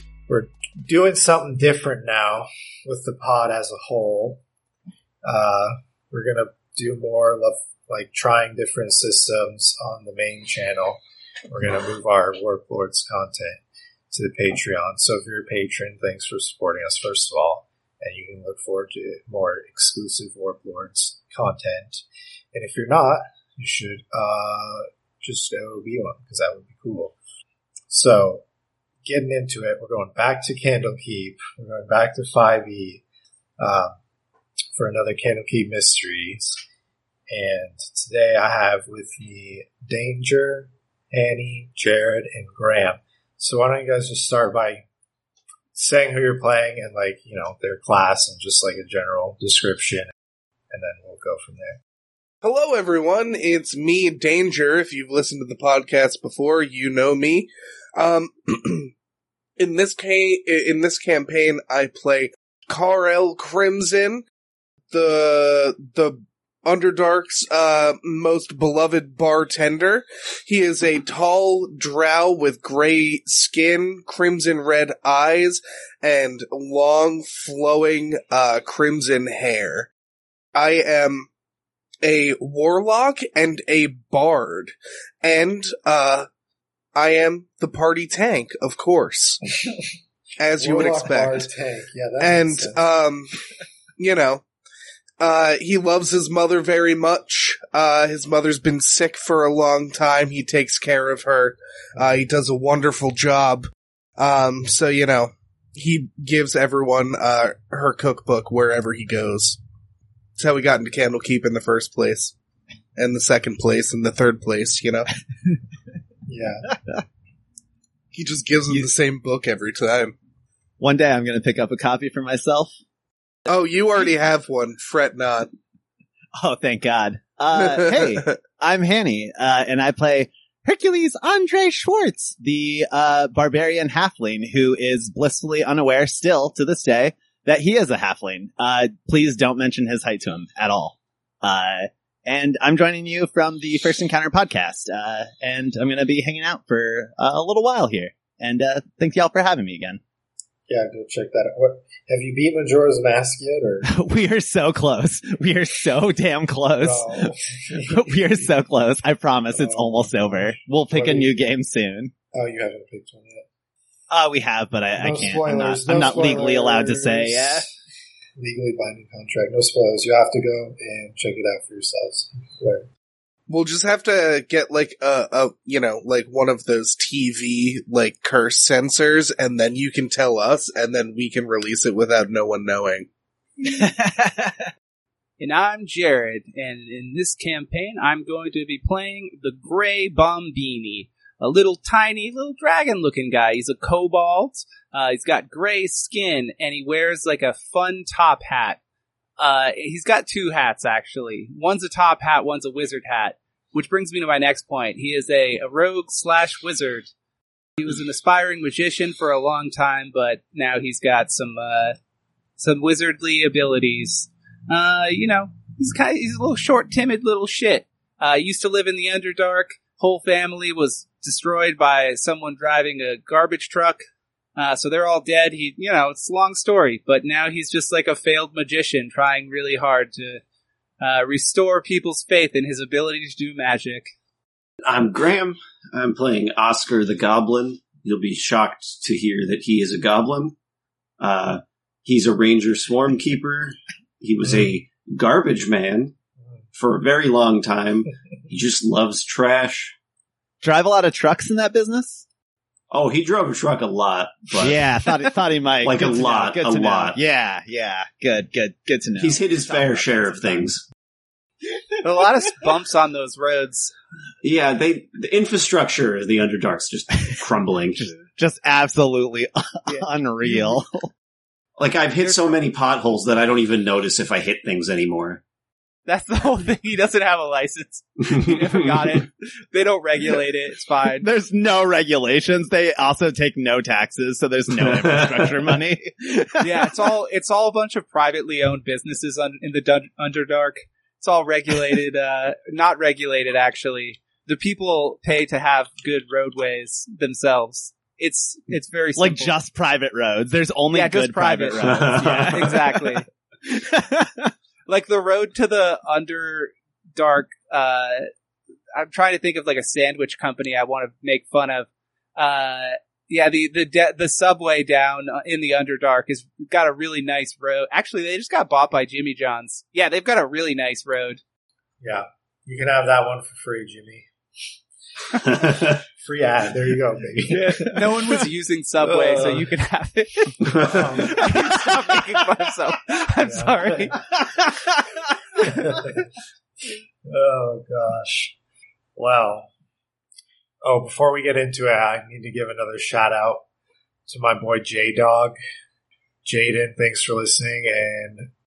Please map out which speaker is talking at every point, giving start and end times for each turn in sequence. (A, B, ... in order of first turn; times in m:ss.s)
0:00.3-0:04.4 A
0:05.2-0:13.6 A
0:14.1-0:27.2 A
0:27.9-0:28.4 A
0:29.0-0:33.0 A
0:33.6-0:34.0 A
0:34.8-0:36.6 A
0:37.3-0:44.8 A
0:45.7-0:50.1 A
0:50.7-0:51.8 A
0:52.4-0:58.9 B
0:59.6-1:04.2 B
1:04.9-1:19.9 B
1:20.6-1:21.3 B
1:22.0-1:26.3 B
1:26.9-1:29.4 B
1:30.4-1:31.5 B
1:30.6-1:32.8 A
1:32.2-1:33.3 B
1:34.0-1:34.4 B
1:35.2-1:49.6 B
1:50.4-1:52.3 B
1:53.0-1:55.1 B
1:56.3-1:56.7 A
1:58.1-2:00.1 B
2:00.8-2:02.7 C
2:03.5-2:05.5 B
2:06.4-2:30.0 C
2:08.0-2:08.3 B
2:30.7-2:33.9 A
2:33.8-2:37.1 C
2:36.8-2:38.0 A
2:37.8-2:42.1 C
2:39.5-2:41.4 A
2:42.3-2:43.5 A
2:44.1-2:47.7 C
2:45.0-2:47.7 A
2:48.4-2:52.9 A
2:53.5-3:03.1 B
3:03.6-3:04.7 C
3:05.4-3:18.8 D
3:19.4-3:27.1 D
3:27.8-3:32.0 D
3:32.6-3:44.0 D
3:44.6-3:50.4 D
3:51.0-3:54.1 D
3:54.8-4:00.6 E
4:01.2-4:06.1 E
4:06.8-4:09.9 E
4:10.6-4:12.2 C
4:12.9-4:14.8 E
4:14.6-4:19.8 C
4:15.8-4:17.2 E
4:19.2-4:20.8 E
4:19.7-4:20.7 D
4:22.0-4:23.9 D
4:24.4-4:28.1 E
4:28.2-4:31.1 C
4:29.9-4:30.8 D
4:31.8-4:35.4 E
4:32.2-4:32.6 D
4:36.1-4:41.3 D
4:41.2-4:47.0 C
4:46.6-4:59.6 D
4:59.2-5:04.5 C
5:00.9-5:03.2 D
5:01.8-5:02.7 E
5:04.9-5:08.3 D
5:08.9-5:21.4 D
5:22.0-5:24.3 A
5:25.4-5:28.4 A
5:25.4-5:26.0 E
5:27.5-5:34.2 D
5:29.1-5:29.6 A
5:30.6-5:31.2 E
5:30.7-5:31.8 A
5:33.4-5:34.2 A
5:35.6-5:36.2 A
5:37.3-5:38.5 A
5:39.2-5:39.7 A
5:40.8-5:43.6 A
5:44.3-5:45.6 A
5:46.4-5:48.5 A